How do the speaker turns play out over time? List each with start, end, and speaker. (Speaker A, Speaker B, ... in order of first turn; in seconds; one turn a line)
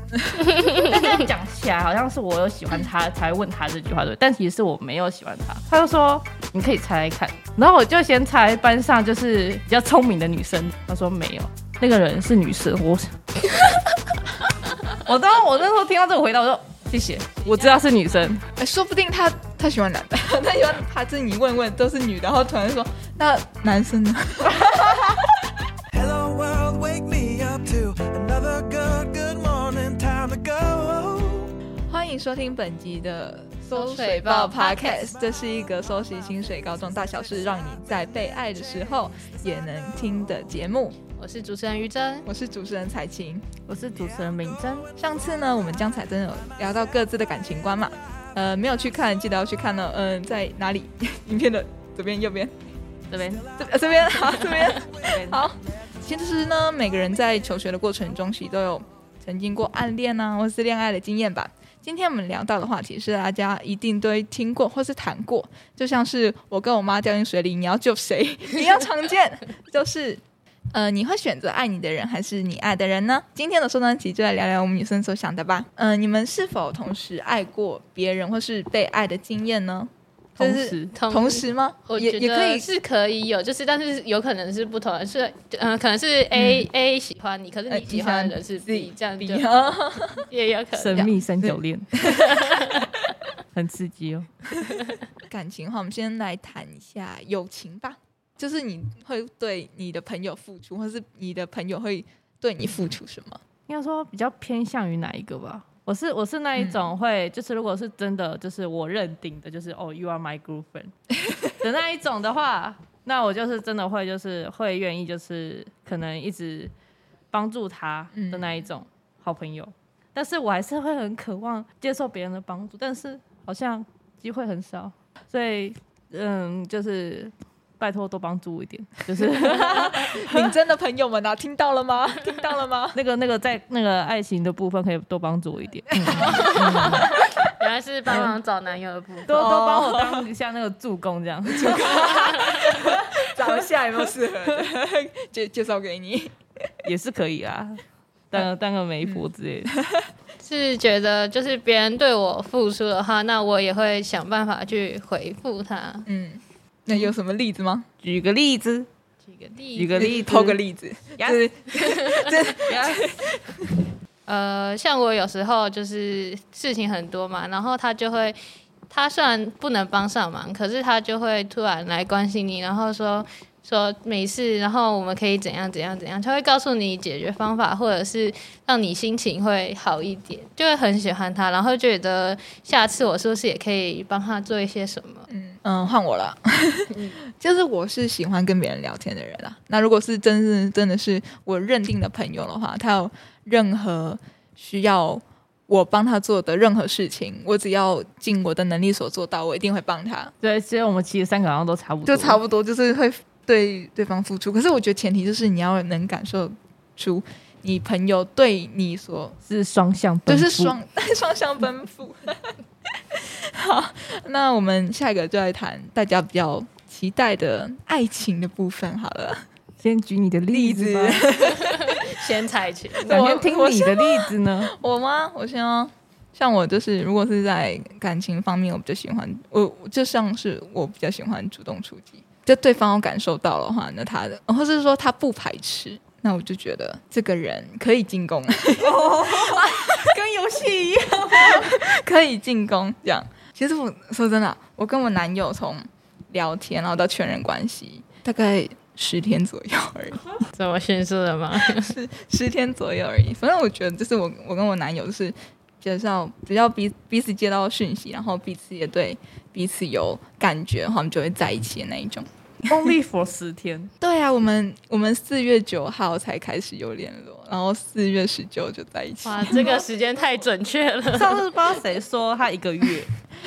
Speaker A: 0.5-13.6
Speaker A: 14.9-18.4
Speaker B: 18.6-25.2
Speaker A: 24.6-25.0
Speaker C: 25.9-31.5
Speaker B: 31.9-41.0
Speaker D: 33.7-35.0
Speaker D: 41.2-42.3
Speaker B: 42.3-43.5
Speaker A: 43.7-44.9
Speaker B: 45.0-52.5
Speaker A: 53.1-53.5
Speaker B: 53.6-70.2
Speaker A: 54.9-55.4
Speaker B: 70.7-82.7
Speaker A: 80.4-80.9
Speaker D: 80.9-89.5
Speaker B: 86.3-86.7
Speaker B: 87.7-90.3
Speaker D: 90.3-91.2
Speaker A: 90.8-91.9
Speaker B: 91.4-92.4
Speaker D: 92.0-93.1
Speaker A: 93.5-94.3
Speaker B: 95.3-103.4
Speaker A: 103.7-110.9
Speaker B: 106.6-106.8
Speaker A: 111.6-116.7
Speaker A: 117.3-130.5
Speaker B: 118.1-118.6
Speaker B: 129.1-133.0
Speaker A: 132.9-137.1
Speaker B: 135.9-137.3
Speaker D: 136.1-139.4
Speaker A: 139.3-143.1
Speaker B: 139.3-140.3
Speaker B: 141.5-146.4
Speaker D: 142.0-142.8
Speaker A: 146.8-149.8
Speaker B: 149.0-150.1
Speaker D: 150.4-156.1
Speaker B: 156.1-157.8
Speaker A: 158.0-158.9
Speaker D: 159.2-160.1
Speaker A: 159.7-160.6
Speaker B: 159.9-163.8
Speaker A: 161.2-161.4
Speaker D: 162.0-162.3
Speaker A: 162.5-163.1
Speaker D: 164.3-168.4
Speaker D: 168.9-185.3
Speaker B: 185.3-200.3
Speaker A: 200.4-202.4
Speaker B: 202.0-209.3
Speaker A: 209.5-210.7
Speaker B: 210.3-212.6
Speaker B: 213.1-219.4
Speaker A: 219.8-221.2
Speaker B: 220.5-222.1
Speaker D: 221.5-223.3
Speaker B: 223.0-240.0
Speaker A: 223.1-224.7
Speaker A: 238.8-241.7
Speaker B: 241.3-250.2
Speaker D: 250.5-251.9
Speaker B: 251.6-262.9
Speaker A: 262.7-263.9
Speaker B: 264.0-269.9
Speaker D: 269.2-271.4
Speaker A: 271.1-273.1